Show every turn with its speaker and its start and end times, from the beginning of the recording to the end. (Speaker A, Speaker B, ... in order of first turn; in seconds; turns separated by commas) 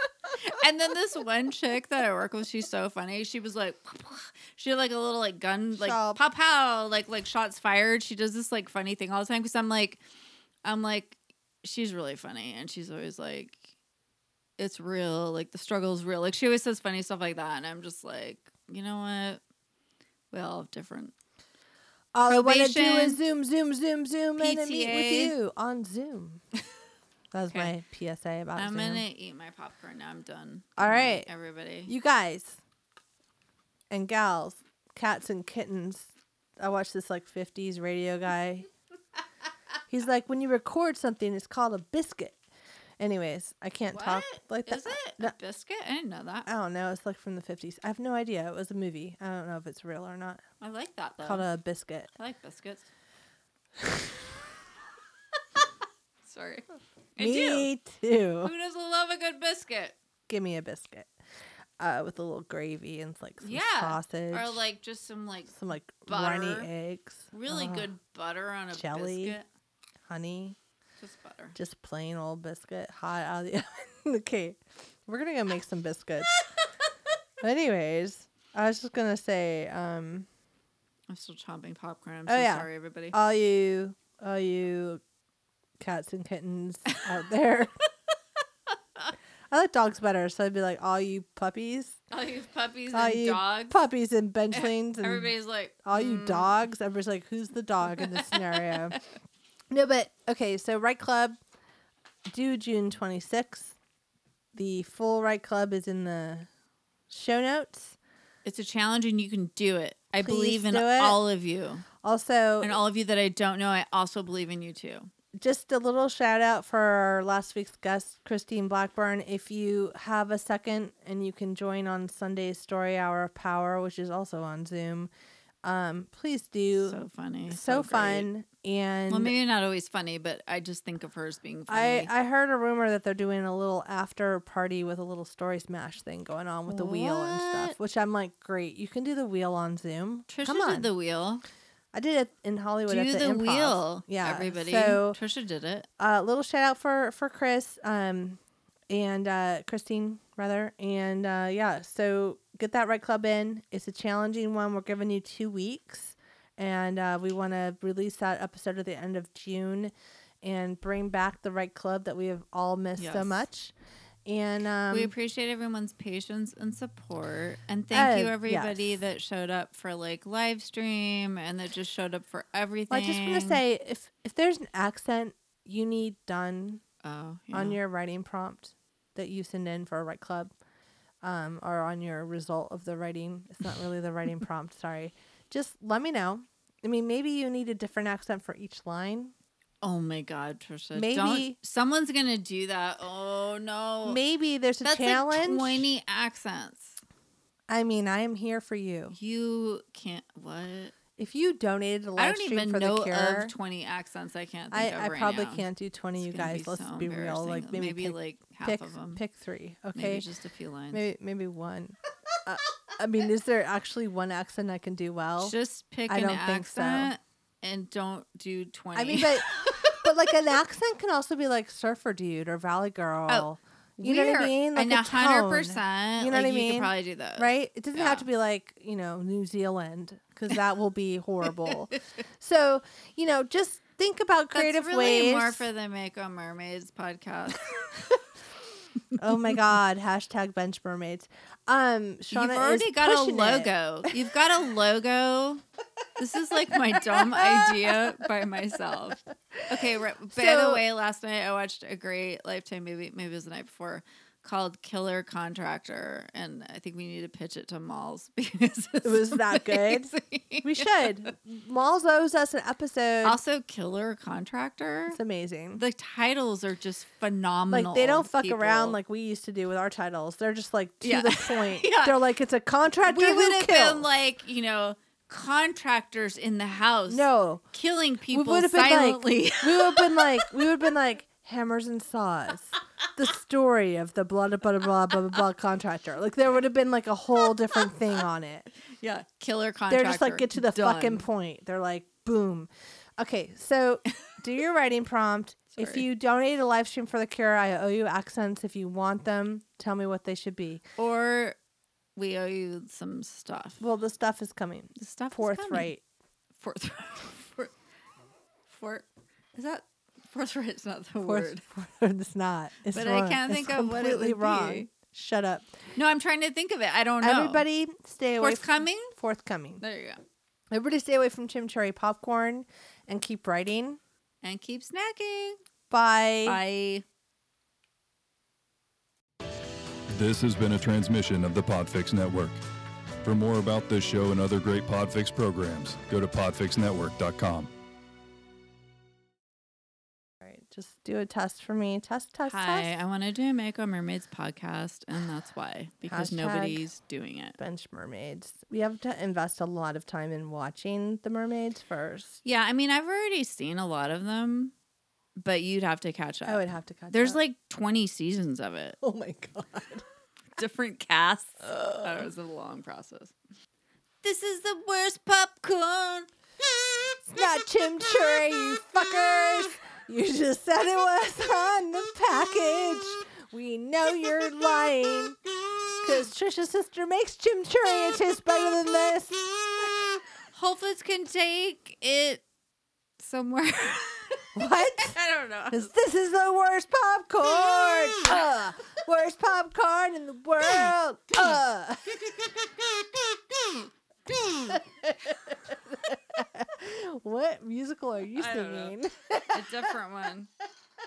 Speaker A: 0.3-10.0, Speaker B: 5.7-6.2, Speaker A: 10.6-13.6, Speaker A: 14.6-19.4, Speaker A: 20.3-21.1, Speaker B: 22.1-26.4, Speaker A: 22.3-23.2, Speaker A: 24.4-25.4, Speaker B: 27.3-29.0, Speaker A: 28.6-31.9, Speaker B: 30.8-31.3, Speaker B: 31.9-32.6, Speaker B: 33.9-38.7, Speaker B: 39.9-42.4, Speaker B: 43.0-45.3, Speaker A: 43.9-46.5, Speaker B: 46.5-50.4, Speaker A: 50.6-51.5, Speaker B: 51.2-52.1, Speaker A: 52.2-52.9, Speaker B: 53.8-54.2, Speaker A: 56.3-57.7, Speaker B: 57.2-58.5, Speaker A: 58.4-60.0, Speaker B: 60.3-61.1, Speaker B: 61.8-64.6, Speaker A: 63.4-66.7, Speaker B: 65.5-67.9, Speaker A: 67.3-69.5, Speaker B: 68.7-69.4, Speaker B: 70.1-70.6, Speaker A: 71.0-71.6, Speaker B: 71.6-76.4, Speaker B: 77.4-80.3, Speaker A: 81.1-83.2, Speaker B: 82.3-85.0, Speaker B: 85.8-87.7, Speaker B: 89.5-92.0, Speaker A: 92.1-93.8, Speaker B: 92.9-99.0, Speaker A: 94.5-96.6, Speaker A: 97.9-98.8, Speaker B: 99.7-101.4, Speaker B: 102.3-103.8, Speaker B: 104.5-106.5, Speaker B: 107.1-108.0, Speaker A: 108.4-111.8, Speaker B: 110.2-111.2, Speaker B: 112.0-112.8, Speaker A: 112.6-115.1, Speaker B: 115.4-125.1, Speaker B: 125.6-129.3, Speaker A: 126.7-128.3, Speaker A: 129.1-132.1, Speaker B: 131.7-140.9, Speaker A: 136.7-137.8, Speaker A: 140.3-141.4, Speaker B: 141.9-145.2, Speaker A: 142.9-145.9, Speaker B: 146.0-163.7, Speaker A: 163.0-163.4, Speaker B: 164.3-165.1, Speaker A: 164.9-173.6, Speaker B: 167.9-169.0, Speaker B: 172.9-176.8, Speaker A: 177.0-177.8, Speaker B: 177.5-180.5, Speaker B: 181.2-189.3, Speaker A: 189.8-194.2, Speaker B: 190.9-191.6, Speaker B: 194.1-195.9, Speaker A: 194.8-197.0, Speaker B: 197.7-199.2, Speaker A: 199.1-200.9, Speaker B: 201.2-203.6, Speaker A: 202.2-205.7, Speaker B: 204.7-210.2, Speaker A: 206.2-209.2, Speaker A: 209.9-211.0, Speaker B: 210.9-215.6, Speaker A: 215.4-220.0, Speaker B: 216.1-217.1, Speaker B: 218.9-235.7, Speaker A: 224.0-228.3, Speaker A: 234.5-238.2, Speaker B: 239.2-244.3, Speaker A: 242.3-245.6, Speaker A: 246.2-261.3, Speaker B: 246.7-248.3, Speaker B: 248.8-250.8, Speaker B: 259.0-263.4, Speaker A: 263.2-265.2, Speaker B: 265.1-265.8, Speaker A: 265.8-269.0, Speaker B: 267.7-274.1, Speaker A: 271.0-272.2, Speaker A: 273.0-280.6, Speaker B: 277.1-277.6, Speaker B: 278.3-288.7, Speaker A: 289.0-291.3, Speaker B: 289.9-300.8, Speaker A: 295.7-296.0, Speaker A: 301.0-301.6, Speaker A: 302.2-303.8, Speaker B: 303.8-306.0, Speaker A: 305.0-305.9, Speaker A: 306.6-307.7, Speaker A: 308.7-311.6, Speaker B: 311.2-315.7, Speaker A: 312.9-314.9, Speaker A: 316.0-317.7, Speaker B: 317.2-319.8, Speaker A: 318.4-319.1, Speaker A: 319.8-320.2, Speaker B: 320.7-324.0, Speaker A: 324.4-325.6, Speaker B: 325.9-326.6, Speaker A: 326.4-327.1, Speaker C: 330.1-332.6, Speaker C: 333.2-337.7, Speaker B: 340.4-342.9, Speaker A: 342.5-347.6, Speaker B: 346.1-346.9, Speaker B: 347.6-352.4, Speaker A: 352.4-354.7, Speaker A: 355.4-359.0, Speaker B: 356.5-357.4, Speaker B: 359.0-360.0, Speaker A: 360.6-363.3, Speaker B: 361.7-362.3, Speaker A: 364.2-366.3, Speaker B: 367.3-380.1, Speaker A: 380.5-382.4, Speaker A: 383.2-384.5, Speaker B: 384.6-385.2, Speaker A: 385.0-385.8, Speaker B: 385.7-393.8, Speaker B: 394.3-399.8, Speaker A: 398.4-398.9, Speaker A: 399.5-400.5